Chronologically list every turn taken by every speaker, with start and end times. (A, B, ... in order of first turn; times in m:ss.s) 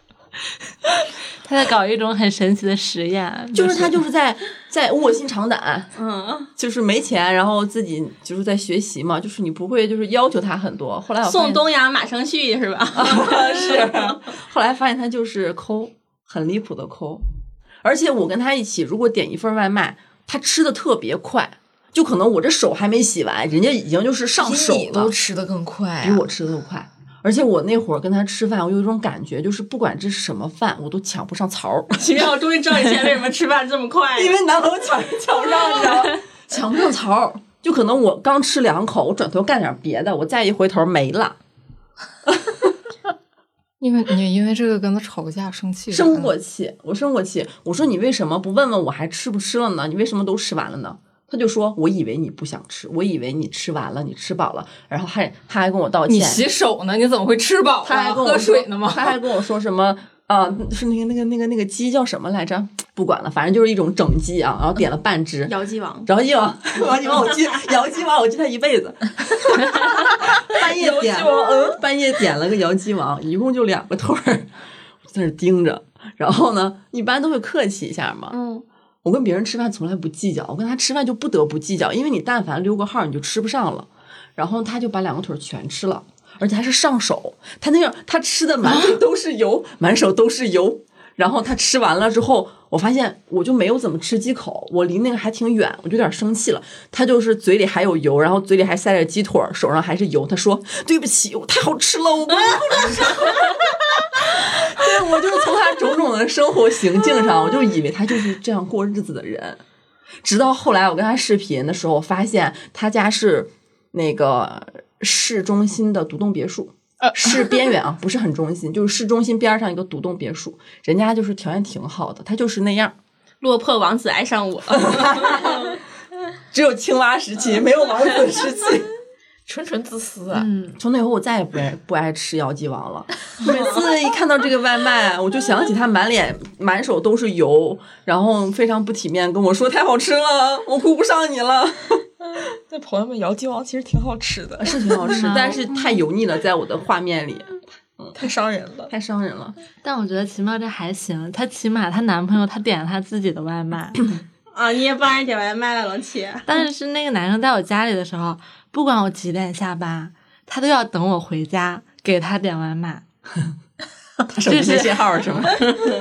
0:01.4-0:03.9 A
0:03.5-0:05.9 B
0:06.0-0:06.5 C
0:06.6-0:11.6 B
0:11.2-0:14.0 C
0:13.0-0:17.2 B
0:17.8-0:25.2 B
0:24.4-0:26.3 D
0:26.0-0:32.0 B
0:32.0-0:34.4 C
0:34.2-0:41.4 B
0:42.3-0:42.7 B
0:43.8-0:46.3 E
0:45.9-0:56.4 B
0:56.1-0:59.2 E
0:57.8-1:05.5 B
1:05.5-1:06.1 C
1:06.1-1:14.5 B
1:10.6-1:11.8 D
1:15.1-1:18.4 B
1:18.3-1:18.6 C
1:19.0-1:49.6 B
1:50.2-2:03.0 B
2:03.4-2:05.6 C
2:04.7-2:05.7 B
2:06.5-2:08.9 B
2:09.5-2:10.6 D
2:10.8-2:22.0 B
2:22.3-2:25.6 D
2:24.6-2:28.2 B
2:25.1-2:25.6 A
2:28.2-2:28.9 D
2:28.9-2:29.6 B
2:29.8-2:34.1 A
2:34.5-2:36.5 C
2:36.5-2:43.0 A
2:44.3-2:45.7 B
2:44.5-2:45.2 A